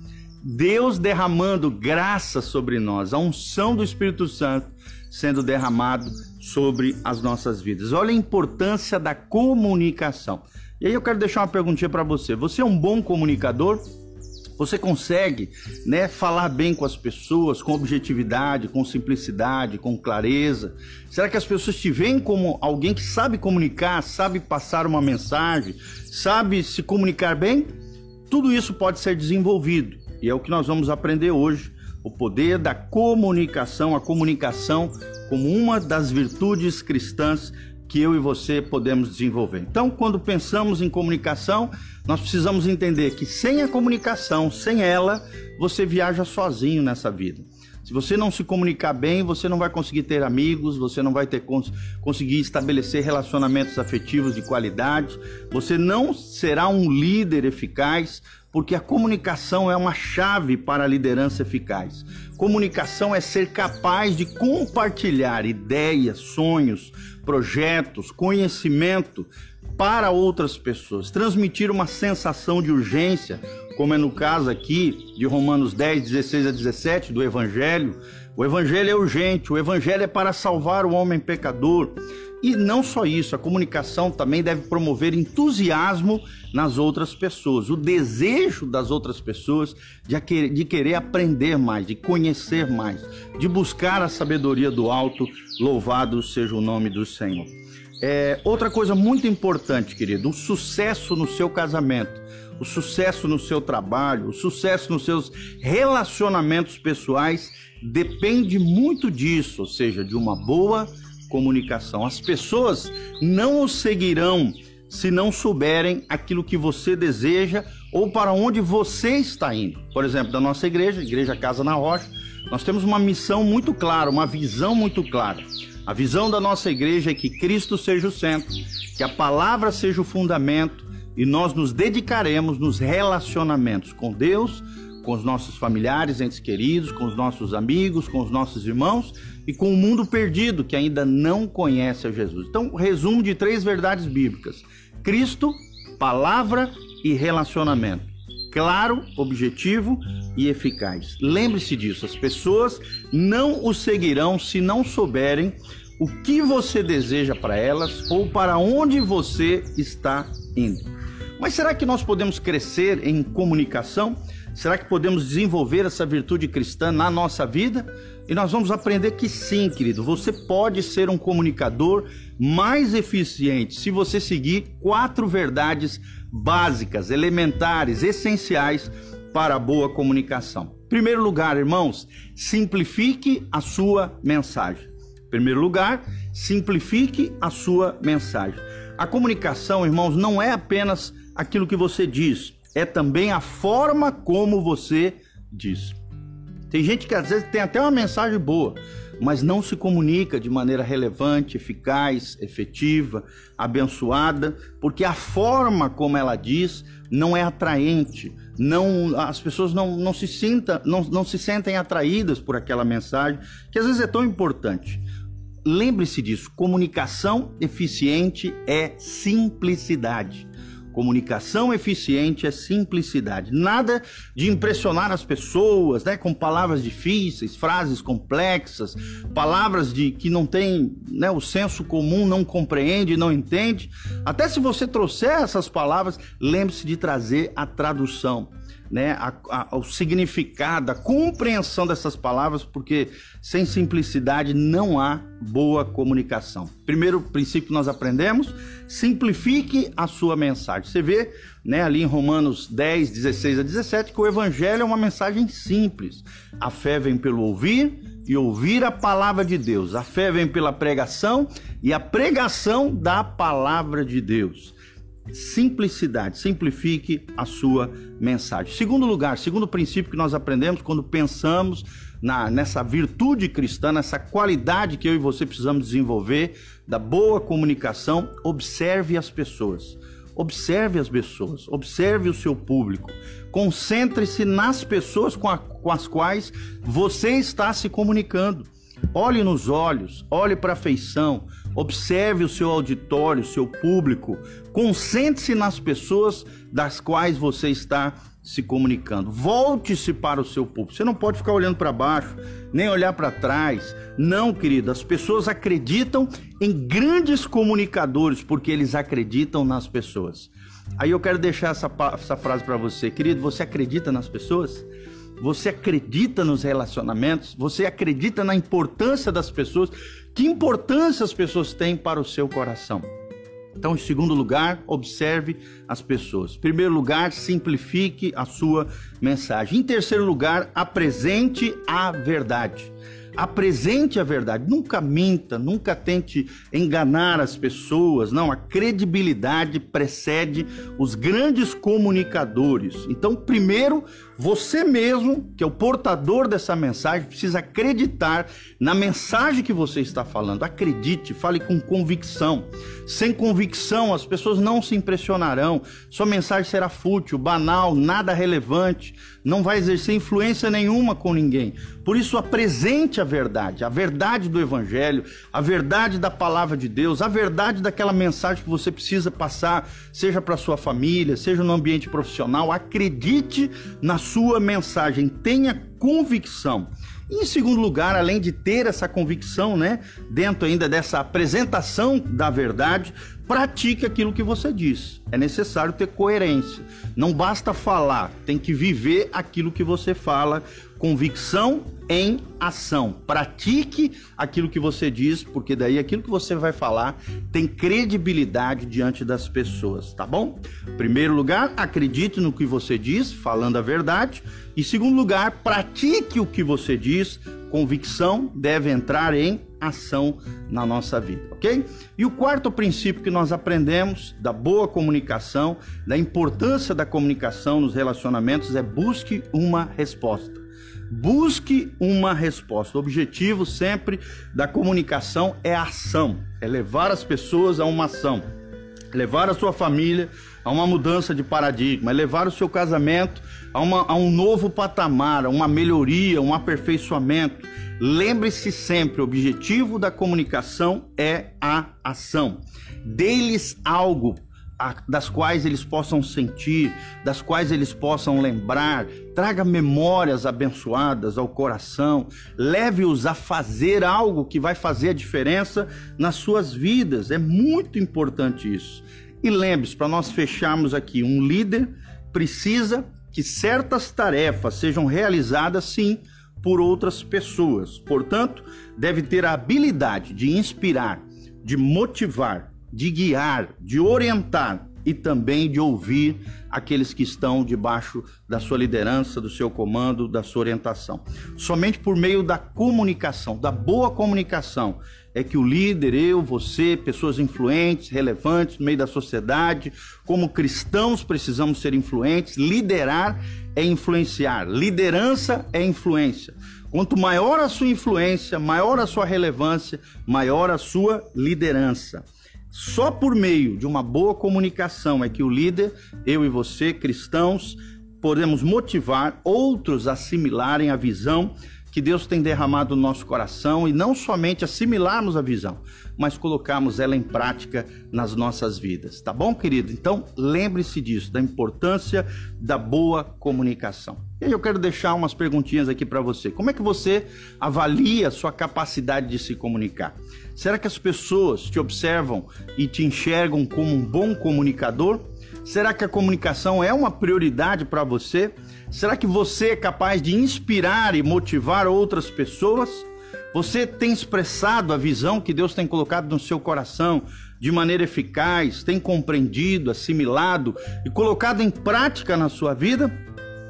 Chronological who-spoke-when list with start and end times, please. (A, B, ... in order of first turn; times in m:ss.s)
0:00.4-0:13.8 A
0:14.6-0:27.7 A
0:28.3-2:40.9 A
2:41.4-3:16.0 A
3:16.7-3:35.0 A
3:35.6-4:24.7 A
4:25.3-5:14.8 A
5:15.4-5:23.1 A
5:23.8-7:08.4 A
7:09.1-9:13.1 A